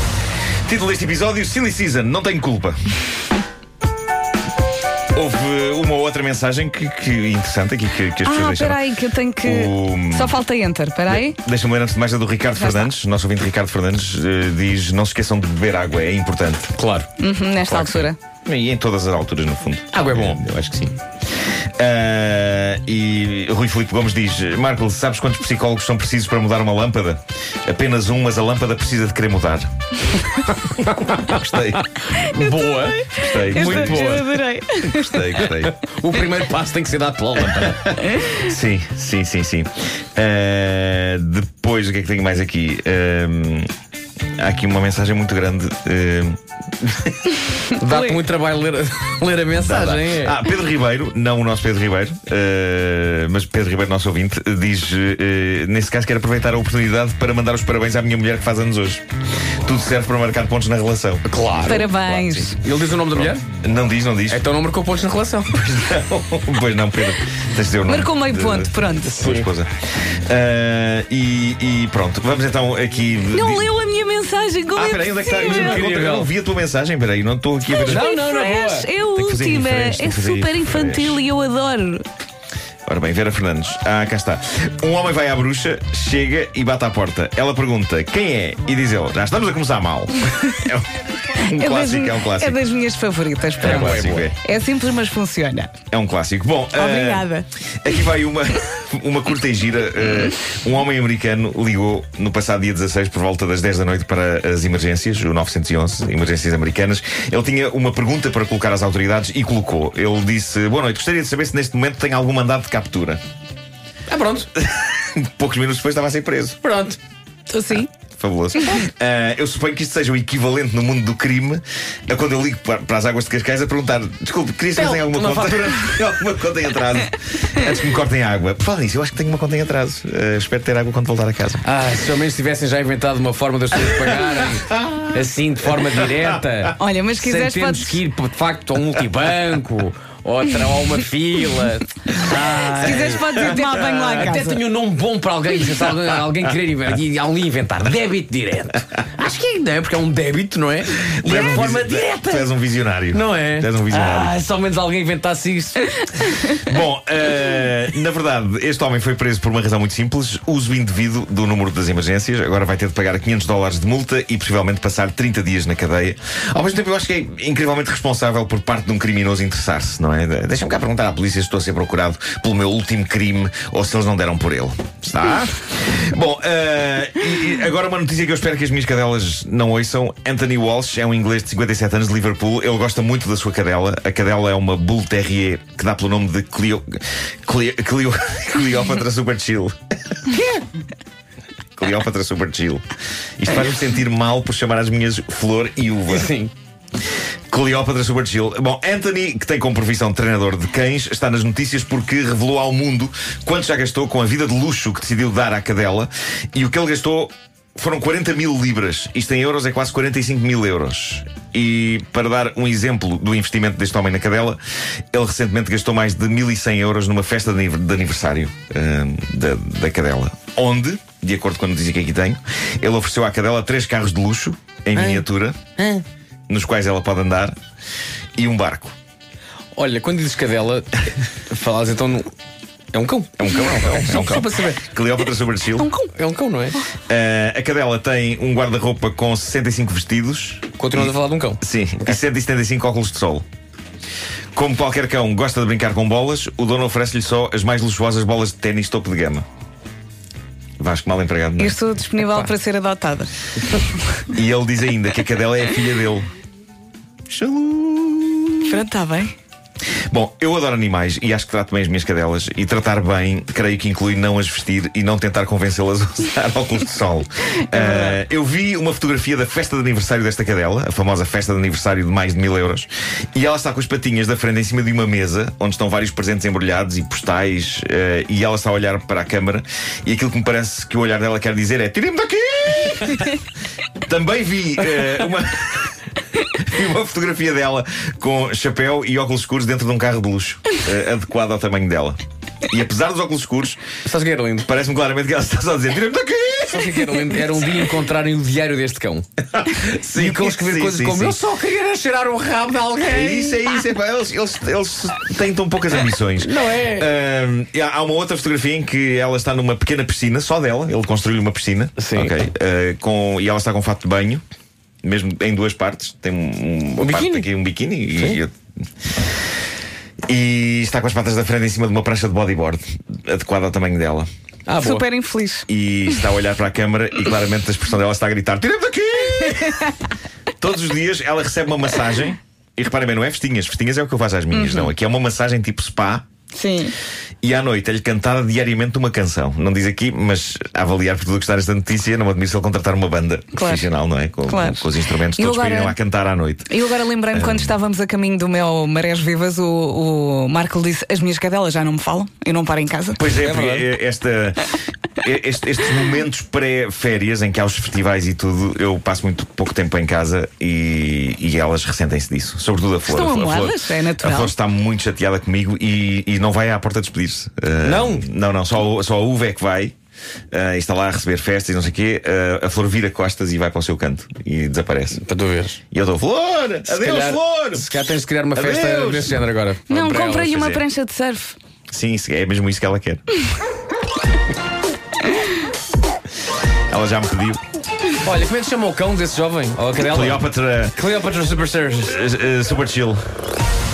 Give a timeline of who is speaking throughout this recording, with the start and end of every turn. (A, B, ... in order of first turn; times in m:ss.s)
0:00.6-0:02.8 A
0:05.2-0:08.8 A
0:08.2-0:11.4 B
0:09.4-0:10.4 A
0:11.1-0:16.8 A
0:12.6-0:12.9 B
0:16.7-0:17.1 C
0:17.2-0:18.2 B
0:17.7-0:18.1 C
0:18.5-0:21.0 A
0:19.9-0:20.4 C
0:21.8-0:29.7 A
0:30.4-0:34.4 C
0:31.3-0:31.9 A
0:32.2-0:35.5 B
0:33.1-0:34.3 A
0:34.8-0:35.8 A
0:35.4-0:38.0 C
0:37.7-0:43.7 A
0:38.0-0:38.5 B
0:44.4-0:47.3 A
0:47.7-0:50.4 C
0:47.8-0:48.2 B
0:49.5-0:59.0 A
0:59.6-1:02.5 A
1:01.2-1:02.0 C
1:01.6-1:02.6 B
1:02.5-1:03.4 C
1:03.1-1:04.4 A
1:04.3-1:05.7 C
1:05.5-1:09.7 A
1:07.8-1:09.2 B
1:09.1-1:09.5 C
1:10.3-1:13.7 A
1:13.3-1:15.8 B
1:14.8-1:18.1 A
1:15.4-1:16.3 C
1:17.7-1:22.1 B
1:17.9-1:18.9 C
1:19.1-1:21.2 A
1:22.9-1:32.6 A
1:31.4-1:35.7 B
1:33.6-1:34.4 A
1:33.6-1:34.3 C
1:35.9-1:37.3 A
1:36.7-1:37.5 B
1:37.8-1:53.2 A
1:54.1-1:54.5 C
1:54.6-1:56.6 A
1:56.6-1:57.0 C
1:57.5-1:57.9 B
1:57.7-2:11.7 A
2:04.8-2:06.0 C
2:11.6-2:32.5 C
2:16.8-2:18.0 B
2:22.4-2:24.6 B
2:31.0-2:34.4 A
2:33.1-2:35.9 C
2:36.2-3:09.8 A
3:10.3-3:10.6 C
3:11.8-3:12.8 A
3:13.4-3:16.4 A
3:16.1-3:16.5 C
3:17.5-3:34.6 A
3:35.1-3:45.6 A
3:45.0-3:45.3 C
3:45.8-3:46.0 C
3:46.5-3:47.6 A
3:48.4-3:49.0 A
3:49.8-3:52.3 C
3:52.9-3:54.9 C
3:53.4-3:55.9 A
3:55.8-3:56.1 B
3:56.1-3:56.9 C
3:57.1-4:03.4 A
4:00.8-4:01.6 C
4:04.6-4:09.4 A
4:10.8-4:11.8 A
4:11.6-4:14.2 B
4:14.3-4:16.3 A
4:17.3-4:18.8 A
4:18.7-4:19.3 B
4:20.1-4:43.4 A
4:27.6-4:28.2 B
4:44.1-4:52.2 A
4:52.7-4:53.8 A
4:54.0-4:54.7 C
4:54.6-4:57.7 A
4:56.7-4:59.3 C
4:59.5-5:01.4 A
4:59.8-5:03.7 C
5:03.0-5:14.4 A
5:06.4-5:07.1 C
5:12.0-5:12.4 C
5:15.0-5:18.5 A
5:17.0-5:17.5 C
5:18.1-5:18.4 C
5:20.3-5:24.3 A
5:24.7-5:25.1 C
5:24.8-5:26.2 B
5:25.7-5:30.0 A
5:30.6-5:36.2 A
5:34.5-5:34.9 B
5:36.5-5:37.0 B
5:37.4-5:46.8 A
5:43.5-5:43.9 B
5:44.5-5:46.0 B
5:46.7-5:53.3 B
5:47.3-5:47.7 A
5:53.2-6:10.0 A
5:53.3-5:53.9 C
6:03.1-6:04.5 B
6:07.8-6:08.3 C
6:10.5-6:15.2 A
6:15.2-6:15.8 C
6:15.9-6:17.9 A
6:16.9-6:20.9 C
6:18.6-6:19.4 A
6:19.9-6:21.6 B
6:21.9-6:23.2 A
6:26.9-6:27.6 A
6:28.2-6:32.2 C
6:30.0-6:31.0 A
6:32.0-6:33.2 A